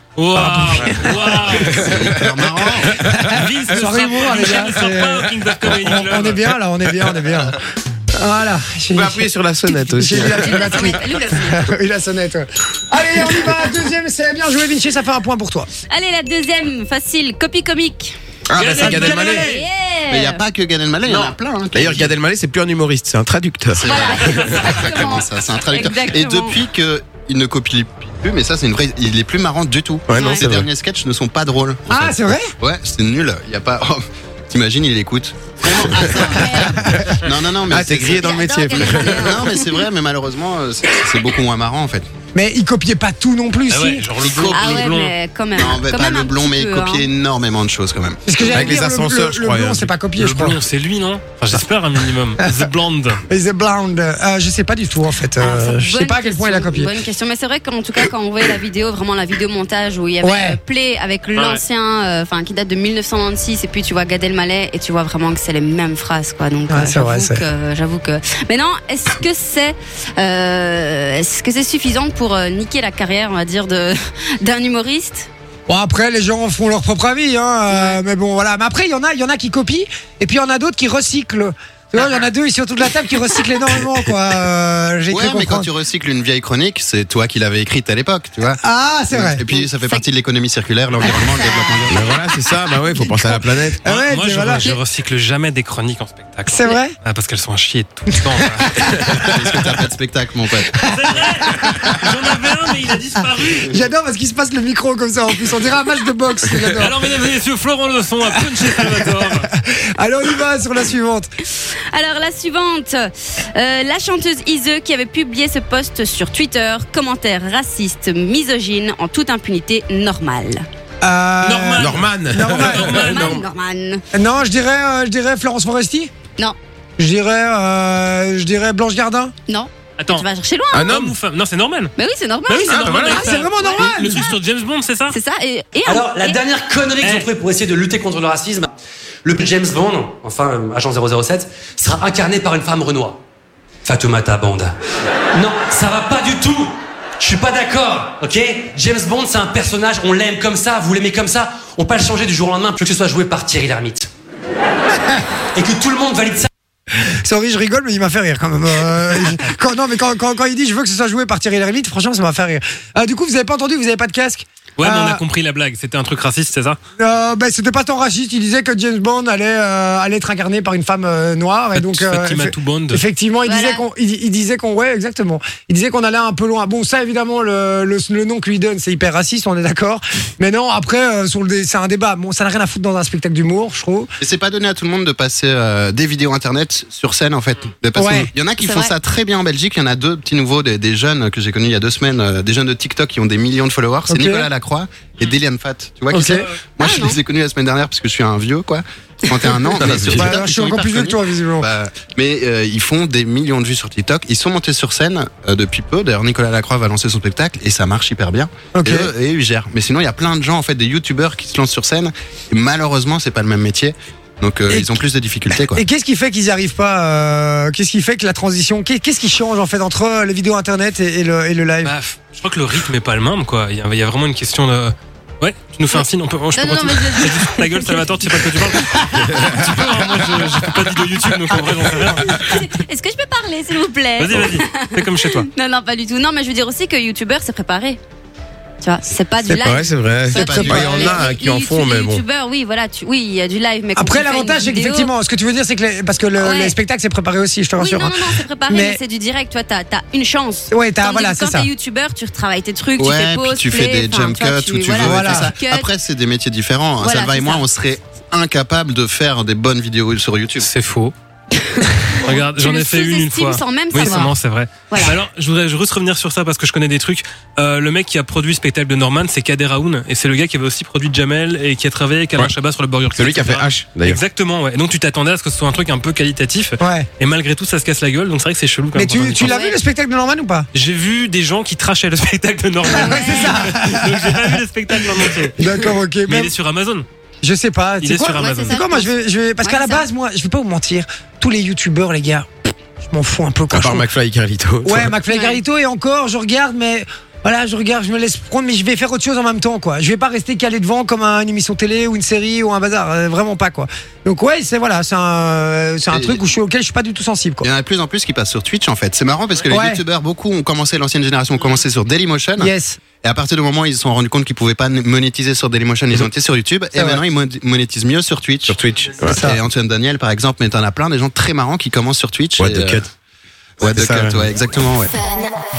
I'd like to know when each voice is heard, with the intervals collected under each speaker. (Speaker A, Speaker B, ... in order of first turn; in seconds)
Speaker A: 0.2-2.0, 3.2-6.5, 18.6-19.6, 43.7-45.1, 50.2-53.2, 61.4-61.6, 93.8-98.9, 100.8-103.7, 106.8-109.5, 121.4-123.5, 130.0-130.3, 130.9-131.9, 132.5-135.2, 137.0-137.3, 164.8-166.8, 171.7-173.0, 221.8-232.3, 234.2-235.5, 260.6-261.1, 262.1-279.5, 280.7-285.6, 286.2-287.1, 288.0-288.8
Speaker B: 0.4-1.3, 2.9-7.6, 8.1-9.2, 9.8-15.7, 18.7-19.5, 31.9-32.5, 42.3-44.1, 48.2-50.6, 53.3-56.9, 60.2-60.6, 66.7-67.4, 75.7-85.7, 88.6-89.4, 93.1-94.7, 96.5-96.9, 103.7-106.9, 109.5-111.3, 121.0-123.2, 124.1-126.1, 127.0-129.3, 132.7-134.3, 157.0-165.2, 167.0-184.1, 187.9-188.3, 194.1-194.5, 196.1-196.5, 200.0-201.7, 208.7-209.1, 214.7-215.0, 215.7-221.9, 240.4-240.9, 244.0-249.0, 250.7-251.7, 255.0-255.5, 264.0-264.3, 276.8-277.1, 278.9-280.7, 282.9-284.3, 285.6-286.5, 287.4-294.1, 294.9-307.6, 309.7-310.0, 312.6-313.0, 319.3-319.6
Speaker C: 1.6-2.1, 8.9-10.6, 18.5-19.6, 21.7-24.6, 30.1-30.7, 37.7-39.5, 48.4-49.9, 91.9-93.8, 121.8-123.1, 130.7-131.2, 132.7-133.4, 199.8-200.4, 229.3-229.7, 239.4-242.2, 273.1-274.2, 293.7-295.1, 318.7-319.5, 322.6-323.1, 323.8-324.5
Speaker D: 1.7-3.0, 18.6-18.9, 20.1-22.1, 23.8-42.1, 44.2-45.0, 45.5-48.2, 85.1-88.6, 89.1-92.1, 99.2-100.9, 184.2-215.8, 240.3-241.2, 253.0-260.7, 306.1-306.4, 307.6-318.8, 319.3-323.1, 323.8-325.1
Speaker E: 10.4-11.7, 15.9-20.4, 23.8-26.6, 30.1-30.5, 36.2-36.8, 38.2-39.8, 44.5-47.1, 55.4-75.3, 89.5-90.0, 91.0-91.8, 111.4-120.6, 122.8-124.0, 129.5-130.9, 132.0-132.8, 133.6-134.2, 135.1-136.4, 173.4-173.9, 188.6-188.9, 196.8-197.2, 226.5-229.6, 232.2-238.0, 238.8-245.1, 246.4-246.8, 247.8-255.9, 257.0-257.7, 261.5-264.3, 264.9-265.2, 279.4-279.8, 282.9-283.6, 288.3-289.1, 289.6-290.1, 295.3-295.6
Speaker F: 135.9-138.7, 139.2-143.2, 143.8-144.8, 145.3-154.1, 155.6-156.5